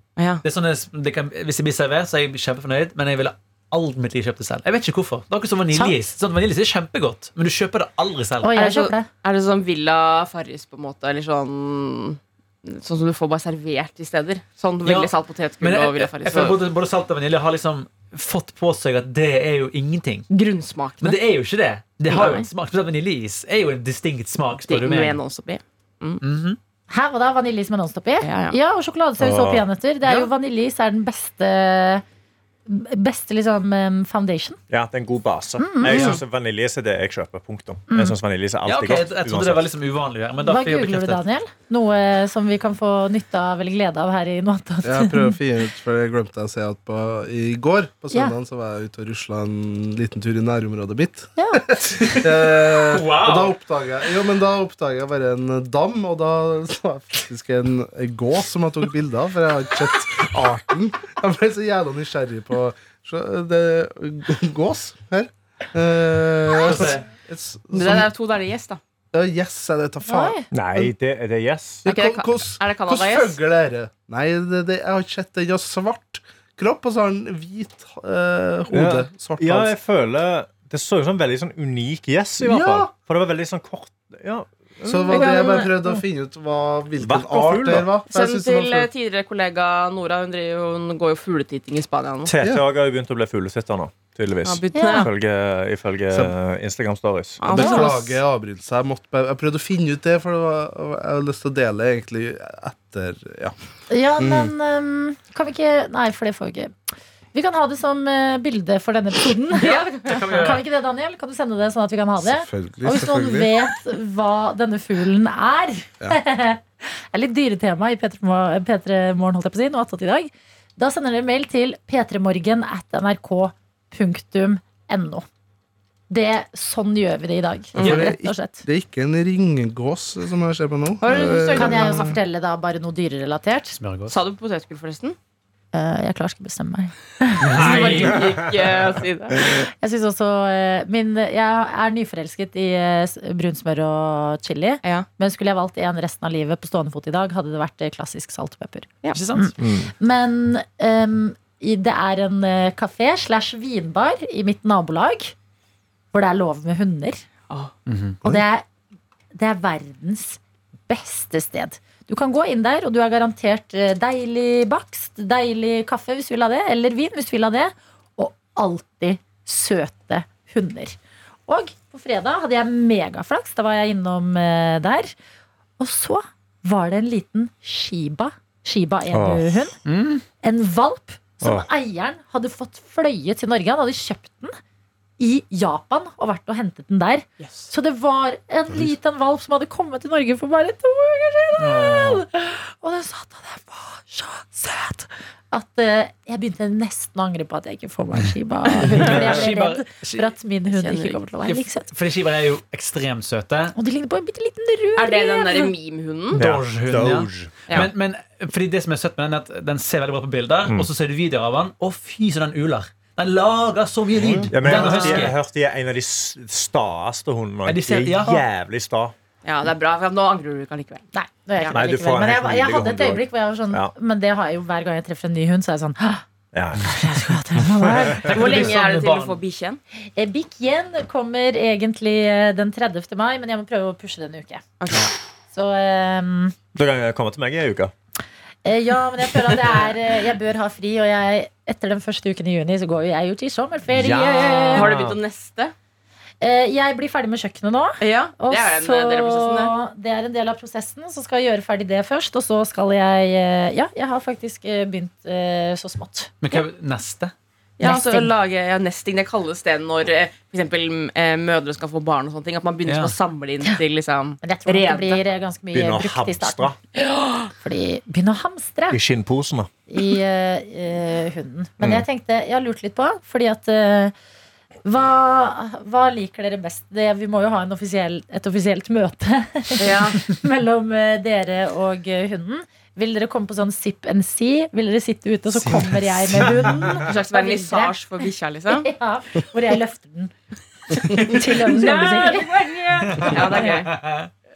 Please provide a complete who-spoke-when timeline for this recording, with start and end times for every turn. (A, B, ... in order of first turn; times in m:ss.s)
0:00.2-0:00.4 A
0:00.4-0:08.5 B
0:08.4-0:09.1 C
0:08.6-0:16.6 A
0:14.8-0:20.2 B
0:20.3-0:21.2 A
0:21.0-0:25.2 B
0:22.1-0:22.5 A
0:24.7-0:26.2 A
0:26.2-0:26.6 B
0:26.9-0:32.0 C
0:28.2-0:28.6 A
0:29.2-0:29.7 D
0:32.6-0:34.6 C
0:34.7-0:39.7 D
0:35.6-0:36.2 C
0:35.9-0:36.2 A
0:37.9-0:38.1 C
0:38.6-0:41.2 B
0:40.4-0:45.4 C
0:44.8-1:08.1 E
0:51.4-0:51.7 C
0:52.0-0:53.5 B
1:06.6-1:07.0 B
1:07.7-1:08.8 A
1:09.1-1:10.9 E
1:10.0-1:10.4 C
1:10.5-1:11.8 D
1:11.8-1:19.7 E
1:11.8-1:13.4 A
1:18.7-1:25.3 D
1:22.4-1:22.9 E
1:24.8-1:28.9 E
1:25.1-1:25.7 A
1:25.2-1:26.0 C
1:27.0-1:27.9 D
1:28.1-1:32.3 A
1:32.2-1:37.6 D
1:34.4-1:35.1 A
1:34.7-1:35.1 C
1:36.1-1:36.3 E
1:37.4-1:38.2 A
1:37.4-1:43.5 E
1:37.6-1:37.9 C
1:43.9-1:46.7 C
1:44.2-1:44.5 E
1:47.3-2:05.2 C
1:49.6-1:50.6 A
1:50.0-1:50.6 B
1:52.2-1:53.5 E
2:06.1-2:08.6 C
2:07.7-2:08.1 A
2:07.8-2:12.2 E
2:11.0-2:12.2 A
2:11.5-2:13.8 C
2:13.8-2:14.1 B
2:14.1-2:15.2 A
2:15.7-2:17.9 C
2:17.4-2:18.2 B
2:17.4-2:19.6 A
2:19.7-2:35.3 C
2:29.1-2:29.5 B
2:29.6-2:29.9 D
2:36.1-2:37.2 C
2:37.9-2:38.2 B
2:38.2-2:38.7 C
2:39.3-2:55.1 C
2:55.8-2:59.8 C
2:59.1-2:59.6 D
2:59.8-3:00.2 B
3:00.4-3:04.6 C
3:01.4-3:01.7 D
3:05.2-3:21.9 C
3:07.4-3:07.7 A
3:11.6-3:12.2 B
3:18.8-3:20.3 B
3:18.8-3:19.1 A
3:20.7-3:21.2 A
3:21.5-3:23.8 B
3:23.7-3:25.7 C
3:25.0-3:26.4 A
3:26.3-3:35.4 B
3:26.4-3:27.9 D
3:34.2-3:39.1 D
3:34.7-3:35.3 C
3:37.6-3:38.4 B
3:39.4-3:41.1 A
3:41.1-3:46.2 C
3:41.7-3:43.9 D
3:46.5-3:47.0 D
3:46.8-3:48.2 C
3:48.1-3:49.4 B
3:48.3-3:49.8 A
3:50.2-3:54.6 C
3:54.8-3:55.1 A
3:55.5-3:56.5 C
3:56.7-3:57.9 D
3:58.6-4:04.9 C
4:03.9-4:05.2 D
4:04.7-4:05.7 A
4:06.4-4:16.6 C
4:08.0-4:09.7 A
4:16.4-4:17.3 B
4:17.8-4:25.2 A
4:17.8-4:18.3 C
4:22.9-4:23.1 B
4:24.4-4:26.7 C
4:25.7-4:26.8 D
4:27.0-4:27.3 A
4:27.5-4:29.0 C
4:28.9-4:29.7 D
4:29.9-4:34.1 C
4:31.8-4:32.0 D
4:34.8-4:47.9 C
4:39.8-4:40.2 A
4:45.5-4:46.7 B
4:47.0-4:48.9 A
4:48.7-4:50.3 C
4:50.9-4:52.6 C
4:51.2-4:53.9 A
4:53.0-4:54.3 B